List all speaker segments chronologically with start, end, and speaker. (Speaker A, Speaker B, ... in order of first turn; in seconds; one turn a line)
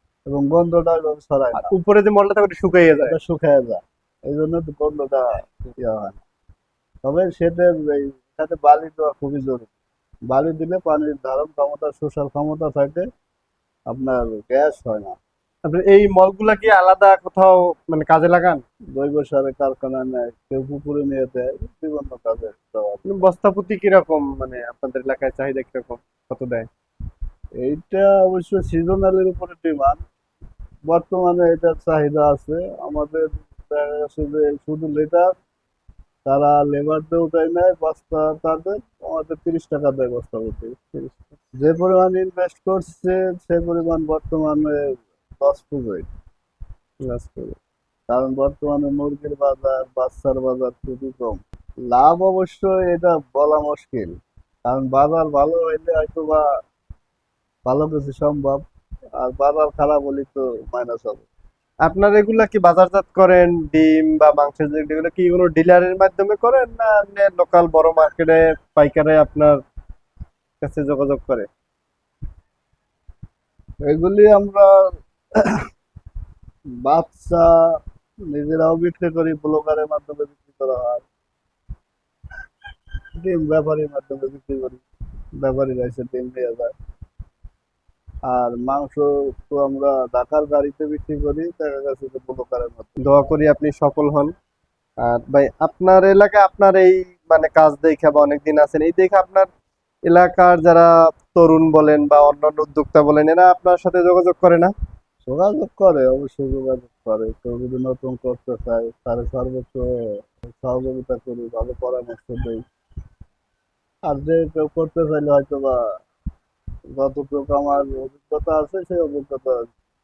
Speaker A: 0.2-1.7
Speaker B: 1.5-3.1
Speaker A: 3.0-6.2
Speaker A: 7.0-9.7
Speaker A: 10.3-13.1
Speaker A: 13.9-15.2
Speaker B: 15.7-18.6
Speaker A: 18.9-23.2
Speaker B: 23.1-26.7
Speaker A: 27.6-30.0
Speaker A: 30.9-35.3
Speaker A: 36.2-40.7
Speaker B: 40.9-41.3
Speaker A: 41.6-46.1
Speaker B: 47.0-47.6
Speaker A: 48.1-51.4
Speaker A: 51.9-56.5
Speaker A: 57.6-58.6
Speaker A: 59.2-61.2
Speaker B: 61.9-69.6
Speaker B: 70.6-71.5
Speaker A: 73.8-74.7
Speaker A: 75.3-75.6
Speaker A: 76.8-77.5
Speaker A: 78.3-81.0
Speaker A: 83.2-84.8
Speaker A: 85.4-86.7
Speaker A: 88.3-92.9
Speaker B: 93.0-94.3
Speaker B: 95.0-99.5
Speaker B: 100.1-104.7
Speaker A: 105.2-109.8
Speaker A: 110.5-112.6
Speaker A: 114.1-115.9
Speaker A: 116.9-119.7